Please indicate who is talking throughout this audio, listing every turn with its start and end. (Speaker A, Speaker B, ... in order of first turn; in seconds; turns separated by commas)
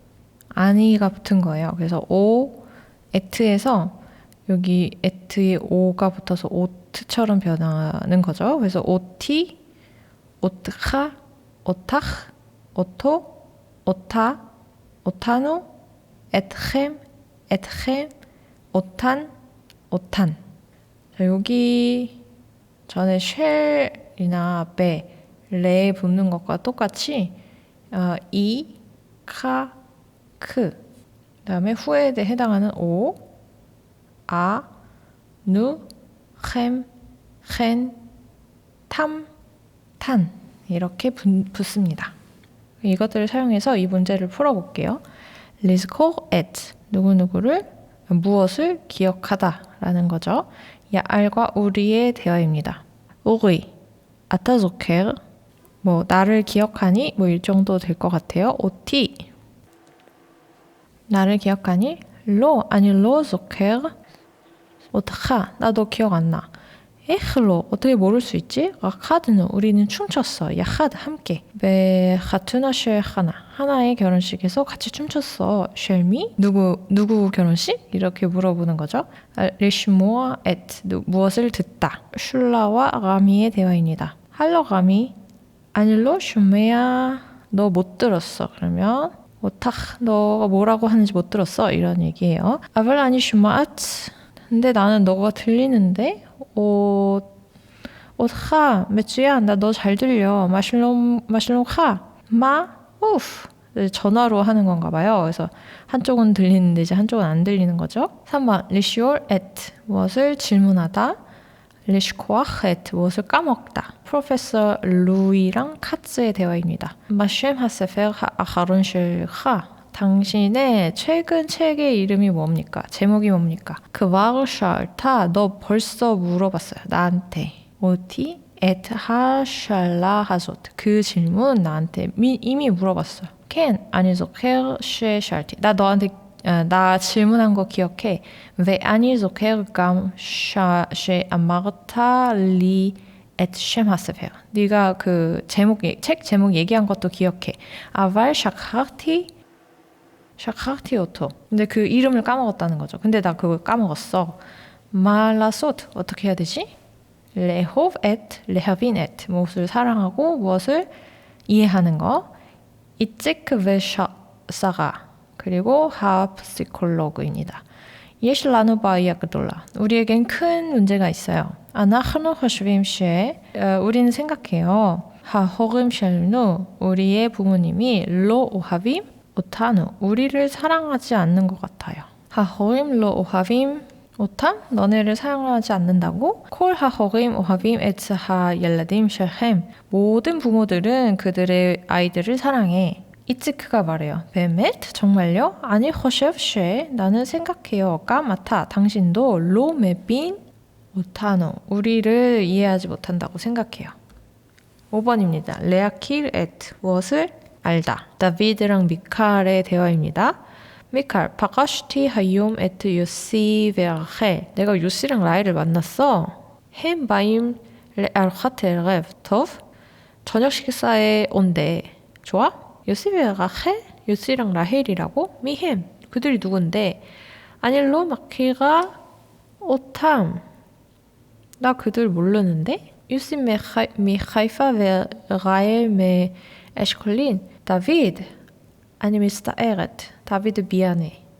Speaker A: 0.5-9.6, Speaker A: 10.4-14.4, Speaker A: 15.0-15.7, Speaker A: 16.3-18.1, Speaker A: 18.7-19.3, Speaker A: 19.9-20.4, Speaker A: 21.1-22.2, Speaker A: 22.9-27.3, Speaker A: 27.9-29.7, Speaker A: 30.4-30.8, Speaker A: 31.4-33.2, Speaker A: 34.3-34.7, Speaker A: 35.4-35.8, Speaker A: 36.4-36.9, Speaker A: 37.4-38.0, Speaker A: 38.9-39.3, Speaker A: 40.0-42.1, Speaker A: 42.8-45.0, Speaker A: 45.6-53.7, Speaker A: 54.3-55.2, Speaker A: 55.8-59.3, Speaker A: 61.1-63.9, Speaker A: 64.9-66.5, Speaker A: 67.0-85.1, Speaker A: 85.7-97.3, Speaker A: 98.2-111.2, Speaker A: 111.8-149.3, Speaker A: 150.4-156.7, Speaker A: 157.3-160.9, Speaker A: 161.5-162.3, Speaker A: 163.0-167.6, Speaker A: 168.2-200.4, Speaker A: 200.9-203.9, Speaker A: 204.9-210.4, Speaker A: 210.9-219.6, Speaker A: 220.2-227.0, Speaker A: 227.6-229.0, Speaker A: 229.6-230.4, Speaker A: 231.6-238.3, Speaker A: 239.0-241.2